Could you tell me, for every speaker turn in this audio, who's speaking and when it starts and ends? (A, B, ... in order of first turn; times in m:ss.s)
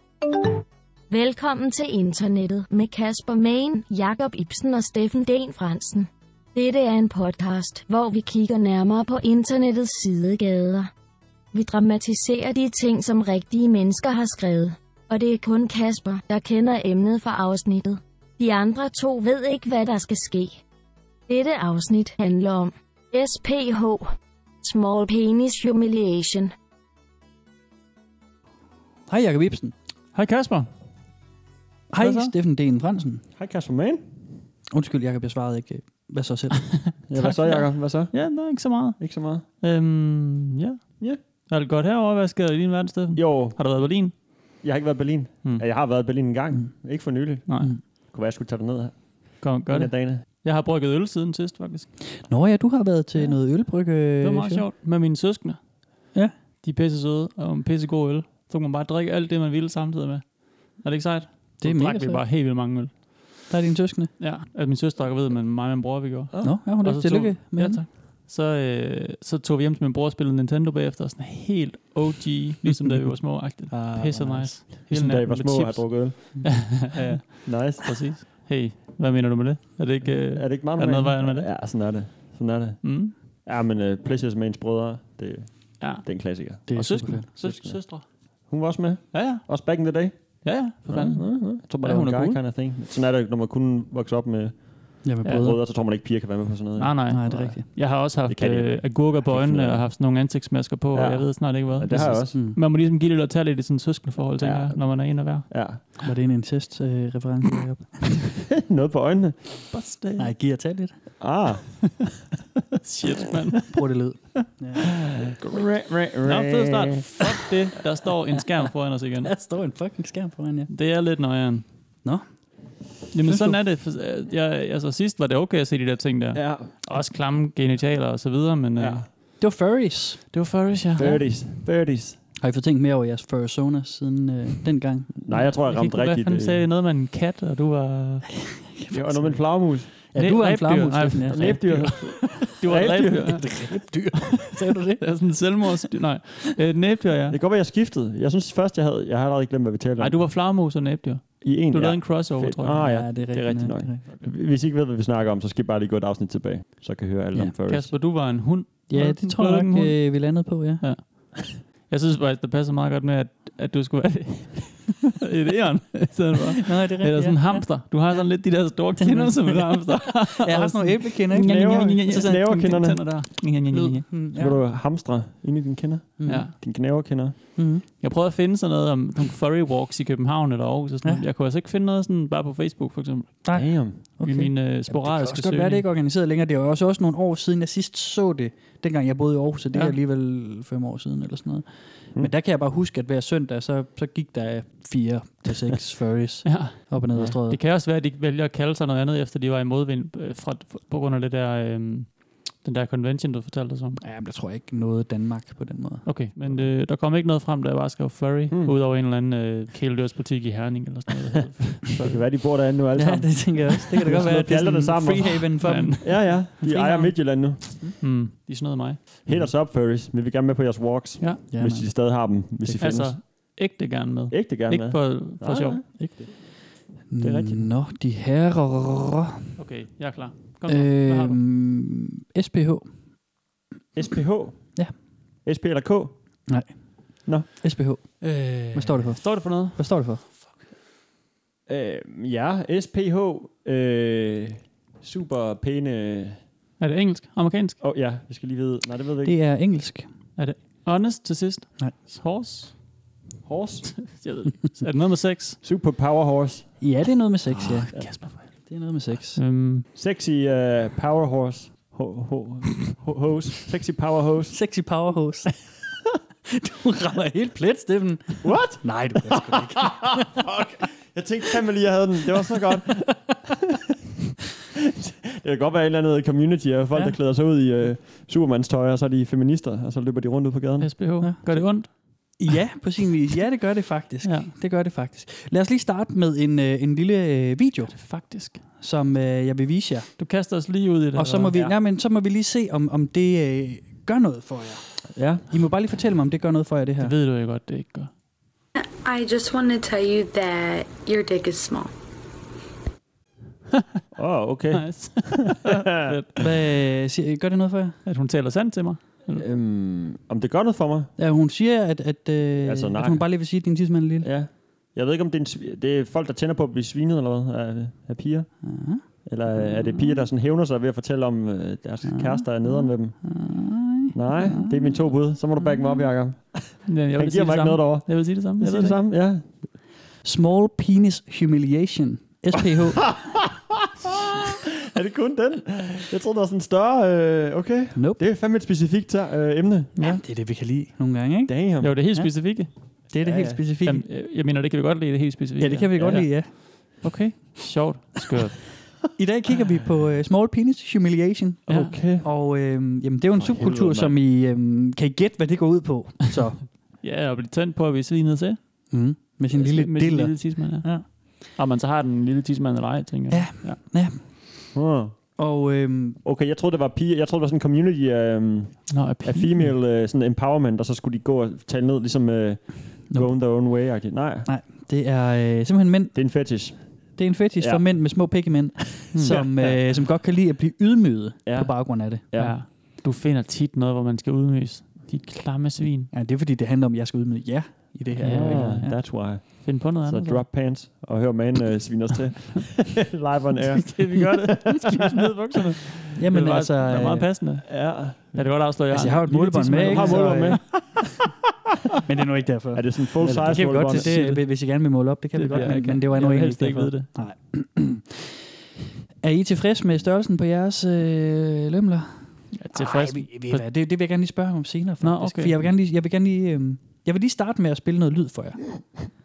0:01.1-0:10.9 A
0:11.5-0:20.6 A
0:21.3-0:26.5 A
0:29.1-0:29.7 B
0:30.1-0:30.7 C
0:31.9-0:33.2 B
0:32.0-0:32.3 C
0:33.4-0:34.1 D
0:34.7-0:36.7 B
0:36.9-0:44.1 C
0:37.1-0:38.1 D
0:39.0-0:39.4 D
0:43.2-0:43.6 D
0:44.6-0:50.2 D
0:47.5-0:47.7 C
0:49.4-0:51.9 C
0:52.2-0:54.6 B
0:54.2-0:55.6 C
0:56.6-1:03.0 C
1:01.6-1:02.3 B
1:03.5-1:04.1 B
1:04.2-1:21.5 C
1:06.3-1:06.6 D
1:06.4-1:07.8 B
1:13.7-1:14.6 B
1:14.9-1:18.1 D
1:20.0-1:39.8 D
1:22.8-1:23.1 C
1:25.8-1:28.1 C
1:26.7-1:27.3 B
1:29.1-1:29.5 C
1:30.4-1:32.4 C
1:35.0-1:35.6 B
1:36.8-1:45.5 C
1:37.1-1:37.6 B
1:40.9-1:42.4 D
1:42.3-1:42.6 B
1:44.4-1:45.8 D
1:46.0-1:48.2 B
1:48.6-1:49.7 D
1:49.7-1:50.3 C
1:50.2-1:51.0 B
1:51.2-1:52.1 D
1:52.8-1:54.2 C
1:53.7-1:54.8 B
1:55.0-1:57.2 D
1:55.4-1:55.7 C
1:56.2-1:59.3 C
1:59.2-2:00.7 B
2:00.7-2:01.6 C
2:02.0-2:03.6 B
2:03.1-2:09.0 C
2:06.3-2:06.7 D
2:08.8-2:09.0 D
2:09.4-2:10.2 B
2:10.3-2:11.2 C
2:11.0-2:12.2 D
2:12.4-2:15.1 B
2:15.2-2:16.6 D
2:15.3-2:18.3 C
2:18.8-2:22.4 B
2:18.9-2:19.9 D
2:20.1-2:27.4 C
2:21.3-2:23.4 D
2:23.2-2:25.4 B
2:27.3-2:30.2 D
2:30.0-2:32.9 C
2:31.4-2:37.9 D
2:32.8-2:34.1 B
2:37.7-2:40.1 C
2:38.9-2:40.8 B
2:40.8-2:54.2 C
2:46.6-2:52.3 B
2:51.4-2:53.0 D
2:53.7-2:54.6 B
2:54.4-2:57.4 D
2:56.2-2:56.5 B
2:56.2-2:56.5 C
2:57.6-2:57.8 B
2:57.8-3:03.5 C
3:03.4-3:17.6 B
3:03.5-3:04.0 D
3:04.2-3:05.8 C
3:16.4-3:24.0 C
3:24.0-3:26.0 B
3:26.0-3:32.2 C
3:28.5-3:28.8 D
3:32.0-3:35.5 D
3:32.9-3:36.8 B
3:35.6-3:39.0 C
3:36.0-3:37.6 D
3:39.2-3:43.5 D
3:41.5-3:41.9 B
3:42.7-3:45.8 C
3:44.3-3:46.2 D
3:46.0-3:49.4 B
3:47.2-3:47.7 D
3:49.6-3:51.4 C
3:50.7-3:52.9 B
3:53.9-3:54.9 D
3:55.4-3:56.2 D
3:56.5-3:58.2 B
3:58.2-3:59.9 C
3:58.7-4:00.2 B
4:01.7-4:06.4 D
4:06.8-4:07.8 C
4:07.8-4:09.4 D
4:09.2-4:10.1 B
4:10.4-4:12.8 C
4:13.4-4:13.9 D
4:13.9-4:15.6 C
4:15.6-4:16.8 D
4:16.8-4:19.4 B
4:17.5-4:18.6 C
4:19.4-4:19.9 C
4:19.9-4:24.6 D
4:24.5-4:25.7 B
4:26.5-4:30.3 B
4:28.4-4:33.4 D
4:35.0-4:41.0 D
4:40.8-4:42.4 C
4:41.2-4:50.2 B
4:44.2-4:44.5 C
4:47.9-4:48.6 C
4:50.2-4:51.5 C
4:51.2-4:57.1 B
4:55.2-4:55.5 D
4:57.0-4:58.1 C
4:58.8-5:01.9 E
5:04.2-5:06.2 D
5:04.7-5:06.4 C
5:06.4-5:08.0 B
5:08.1-5:09.4 C
5:09.3-5:11.1 D
5:11.2-5:14.3 B
5:12.6-5:13.2 D
5:14.2-5:18.5 D
5:18.6-5:19.0 B
5:19.2-5:23.3 D
5:20.0-5:20.2 C
5:22.0-5:25.0 B
5:24.1-5:29.5 D
5:26.9-5:29.0 C
5:30.2-5:33.2 B
5:34.6-5:39.9 D
5:37.9-5:38.2 B
5:40.0-5:44.0 B
5:41.5-5:41.9 D
5:41.8-5:42.7 C
5:43.2-5:43.6 D
5:43.8-5:48.8 C
5:45.6-5:46.5 B
5:49.2-5:56.7 B
5:51.7-5:52.3 D
5:51.7-5:51.9 C
5:53.4-5:54.2 D
5:57.0-5:58.6 C
5:58.9-6:01.1 B
5:59.5-6:03.8 C
6:03.3-6:04.6 B
6:04.7-6:05.1 D
6:05.4-6:06.2 B
6:06.2-6:14.5 D
6:08.9-6:09.7 C
6:14.4-6:16.2 B
6:16.1-6:18.0 D
6:17.2-6:22.2 B
6:19.2-6:19.9 D
6:21.5-6:22.6 D
6:22.4-6:26.1 C
6:26.1-6:29.0 B
6:28.2-6:30.4 C
6:28.2-6:35.0 D
6:33.8-6:41.0 C
6:36.2-6:37.3 B
6:37.7-6:38.4 D
6:38.9-6:41.0 B
6:39.5-6:41.0 D
6:42.1-6:48.4 B
6:42.7-6:44.4 D
6:43.4-6:44.4 C
6:45.4-6:47.1 C
6:49.2-6:59.1 B
6:52.5-6:53.7 C
6:55.0-6:55.5 C